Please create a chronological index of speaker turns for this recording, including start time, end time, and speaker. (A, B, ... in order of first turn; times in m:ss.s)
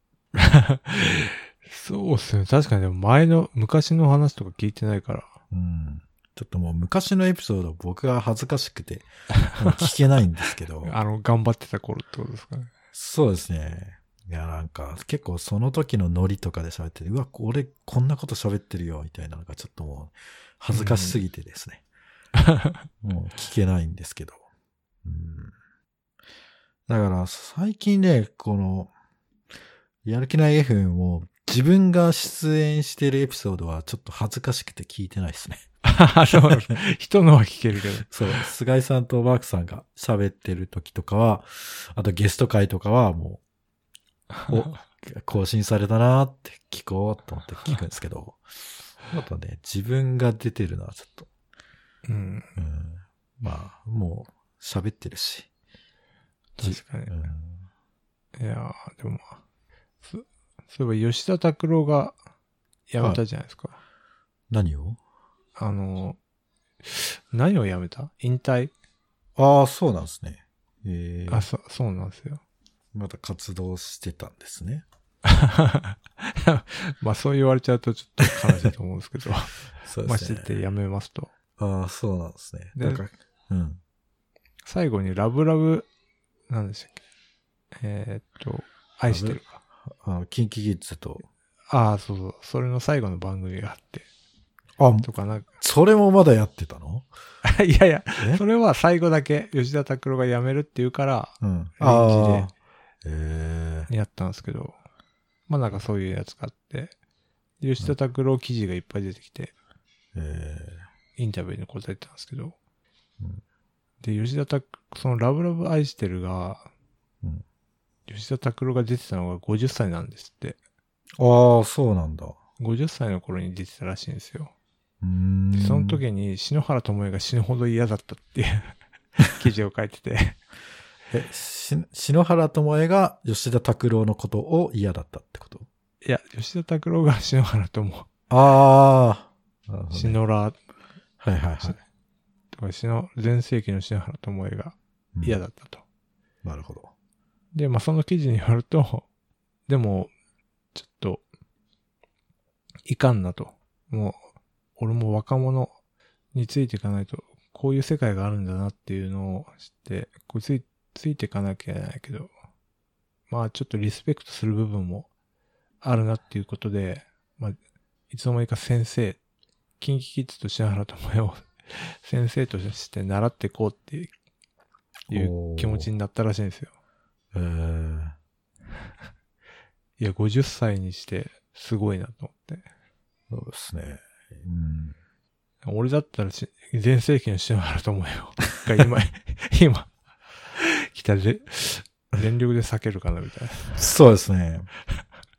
0:00.3-0:05.4 A
0:05.5-0:10.9 B
0:09.4-0:09.9 A
0:10.8-0:12.7 A
0:12.9-0:21.8 B
0:20.7-0:21.2 A
0:22.4-0:22.7 A
0:23.0-0:24.4 B
0:25.0-0:25.5 B
0:26.9-0:28.9 B
0:30.0-0:35.6 B
0:35.8-0:38.4 A
0:38.1-0:43.4 B
0:44.5-0:48.4 B
0:49.1-0:51.3 B
0:52.0-0:52.6 A
0:52.6-0:55.5 B
0:56.6-0:57.1 A
0:56.6-0:57.6 B
0:58.4-0:59.4 A
1:00.0-1:02.1 A
1:02.9-1:03.8 A
1:04.5-1:05.0 B
1:05.6-1:06.2 A
1:06.8-1:08.7 A
1:09.4-1:11.5 B
1:11.3-1:12.4 A
1:12.9-1:14.8 B
1:15.2-1:21.3 A
1:19.8-1:20.5 B
1:21.6-1:23.8 B
1:22.8-1:23.0 A
1:24.6-1:25.9 A
1:26.5-1:27.0 A
1:27.8-1:29.6 A
1:29.1-1:31.3 B
1:31.7-1:34.1 A
1:34.8-1:37.1 B
1:35.0-1:35.5 A
1:37.4-1:42.5 A
1:38.2-1:38.4 B
1:41.4-1:42.5 B
1:43.0-1:43.9 B
1:43.9-1:44.8 A
1:45.5-1:46.9 A
1:47.6-1:49.5 A
1:50.1-1:50.8 B
1:51.2-1:52.5 A
1:54.0-1:56.7 A
1:58.1-2:00.6 A
2:01.2-2:02.4 B
2:02.6-2:04.5 A
2:05.0-2:06.0 B
2:05.5-2:10.4 A
2:11.1-2:15.7 B
2:16.0-2:18.1 A
2:18.3-2:20.2 B
2:19.9-2:20.6 A
2:21.2-2:21.8 B
2:22.5-2:25.8 A
2:25.1-2:25.4 B
2:26.4-2:26.9 B
2:27.5-2:29.1 A
2:29.7-2:30.1 A
2:30.7-2:31.2 A
2:32.8-2:34.2 A
2:34.8-2:35.7 A
2:36.3-2:42.3 A
2:43.3-2:45.1 A
2:45.8-2:47.6 A
2:48.1-2:49.2 A
2:49.8-2:54.1 A
2:55.1-2:55.9 B
2:55.1-2:56.7 A
2:57.3-2:58.1 B
3:00.0-3:02.6 A
3:03.3-3:05.0 B
3:05.6-3:09.9 A
3:10.5-3:13.8 A
3:13.8-3:14.7 B